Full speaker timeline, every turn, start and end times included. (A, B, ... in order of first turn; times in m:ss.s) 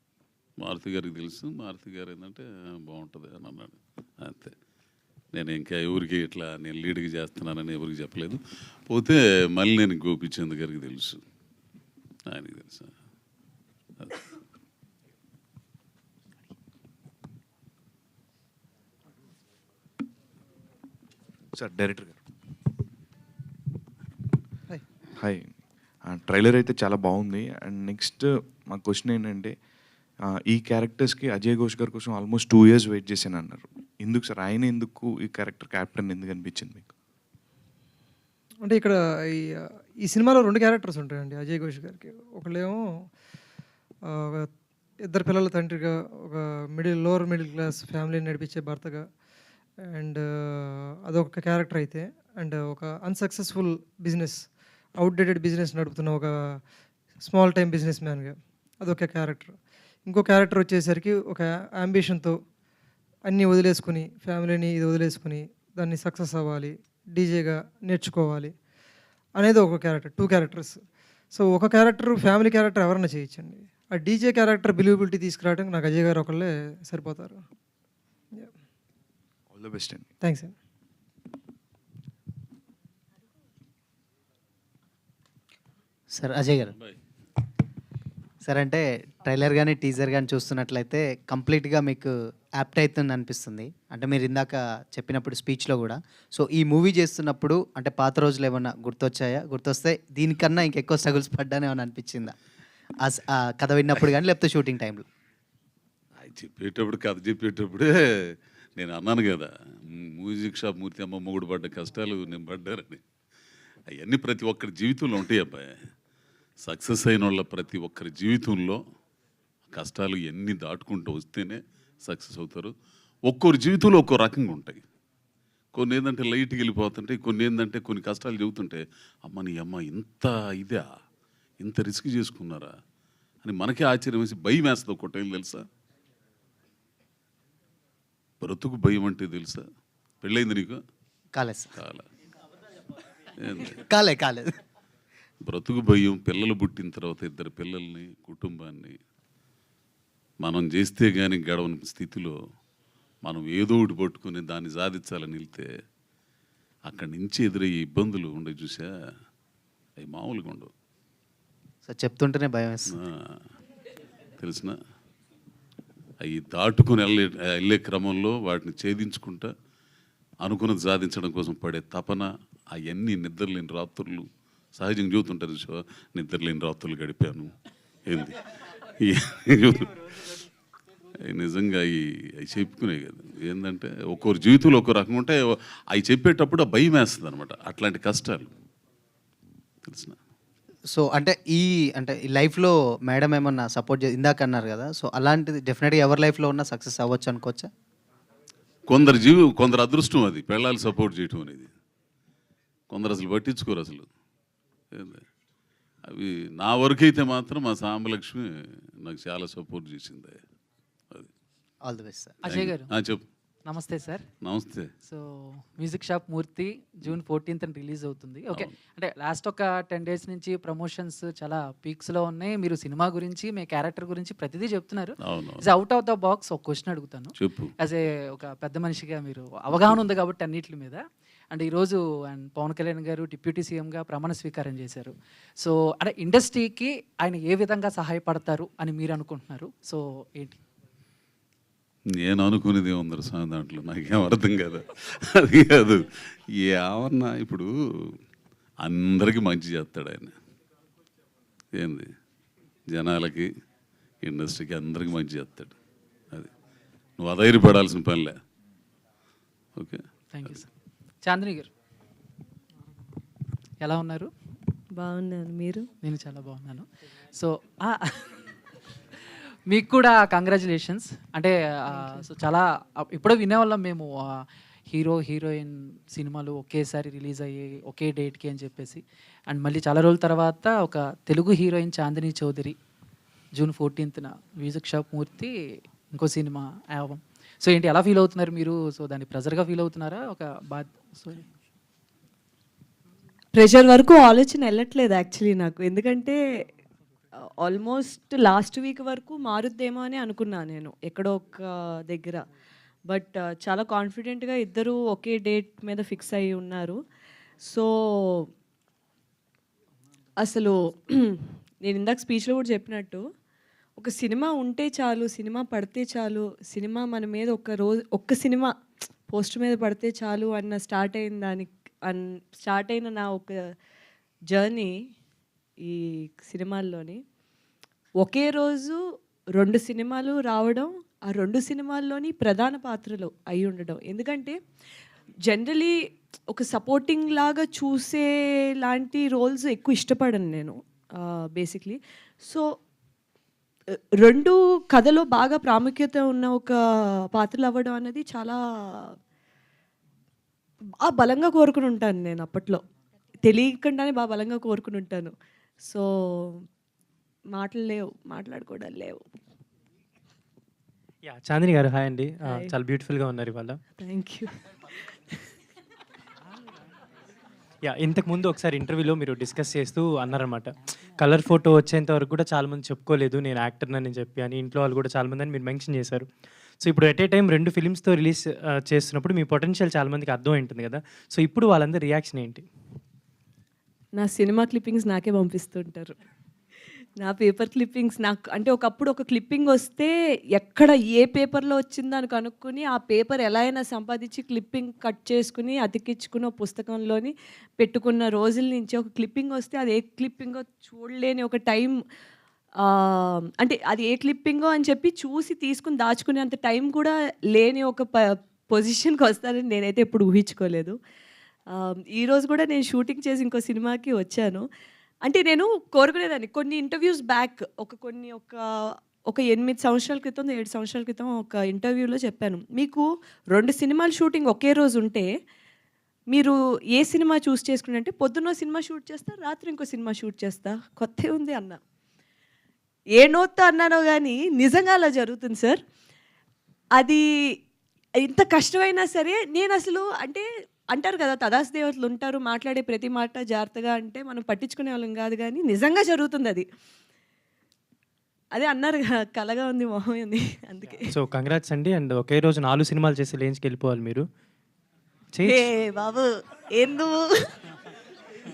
0:00.6-0:04.5 A
0:05.3-0:11.2 A
0:12.3-0:12.9 A
0:21.6-0:22.2 B
0:25.2-0:29.6 B
0:30.3-0:36.9 B
0:38.6-0:43.1 C
0:44.0-0:44.5 C
0:45.0-0:49.1 C
0:49.8-0:56.6 C
0:57.2-1:02.4 C
1:03.2-1:08.6 C
1:09.3-1:10.8 C
1:11.3-1:17.4 C
1:19.5-1:20.1 B
1:20.2-1:20.5 C
1:26.2-1:26.8 D
1:28.4-1:42.3 D
1:43.0-1:45.0 D
1:46.2-1:53.0 A
1:53.9-1:55.7 A
1:56.6-1:58.8 A
1:59.7-2:02.7 A
2:03.3-2:04.8 A
2:05.7-2:10.8 A
2:11.6-2:12.7 A
2:13.4-2:15.6 A
2:18.4-2:19.6 A
2:20.2-2:20.8 A
2:21.4-2:21.7 D
2:21.8-2:22.1 A
2:23.4-2:23.8 A
2:23.7-2:24.5 D
2:25.4-2:29.0 A
2:30.4-2:32.3 A
2:33.2-2:35.6 A
2:36.9-2:38.9 A
2:40.0-2:40.7 A
2:41.8-2:42.9 D
2:42.9-2:43.4 A
2:44.4-2:44.7 A
2:46.2-2:49.5 A
2:50.4-2:57.5 A
2:58.1-3:00.4 A
3:01.2-3:05.4 A
3:05.9-3:08.5 A
3:09.9-3:10.2 A
3:10.9-3:17.7 D
3:18.9-3:21.7 A
3:22.9-3:24.1 A
3:24.9-3:25.2 A
3:26.0-3:28.4 A
3:29.0-3:30.4 A
3:31.9-3:32.3 D
3:32.4-3:32.9 E
3:32.4-3:33.2 A
3:33.6-3:34.2 E
3:34.4-3:34.9 A
3:35.0-4:00.6 E
3:45.2-3:45.6 A
3:47.4-3:47.7 A
4:02.2-4:06.0 A
4:06.6-4:07.7 A
4:08.8-4:10.3 A
4:11.8-4:12.1 A
4:12.9-4:13.5 A
4:14.2-4:15.7 A
4:17.2-4:18.4 A
4:19.8-4:20.0 A
4:20.3-4:20.7 E
4:21.2-4:21.7 E
4:23.8-4:24.3 E
4:25.0-4:25.8 F
4:26.0-4:28.4 E
4:29.7-4:34.1 E
4:34.9-4:42.8 E
4:43.6-4:45.5 E
4:46.1-4:51.5 E
4:53.6-4:56.4 F
4:57.6-5:02.4 F
5:03.1-5:07.0 F
5:07.7-5:08.5 F
5:10.4-5:13.2 F
5:14.0-5:18.7 F
5:19.3-5:23.6 F
5:24.5-5:24.9 F
5:25.8-5:27.2 F
5:28.2-5:29.0 F
5:29.6-5:34.6 F
5:35.4-5:36.0 F
5:36.5-5:42.6 F
5:44.2-5:46.8 F
5:47.3-5:49.1 F
5:51.0-5:52.8 F
5:53.4-5:55.3 F
5:55.9-5:56.6 F
5:57.6-5:59.2 F
6:01.2-6:03.8 G
6:02.4-6:02.7 F
6:04.0-6:04.5 F
6:07.8-6:16.3 G
6:16.8-6:22.7 G
6:24.2-6:26.2 F
6:27.2-6:41.9 F
6:42.8-6:51.0 F
6:51.7-6:54.7 F
6:55.2-6:58.6 F
6:59.3-7:05.3 F
7:06.3-7:11.8 F
7:13.2-7:15.8 F
7:18.2-7:26.6 F
7:28.6-7:31.1 F
7:30.9-7:34.2 G
7:35.3-7:35.7 G
7:35.4-7:37.5 F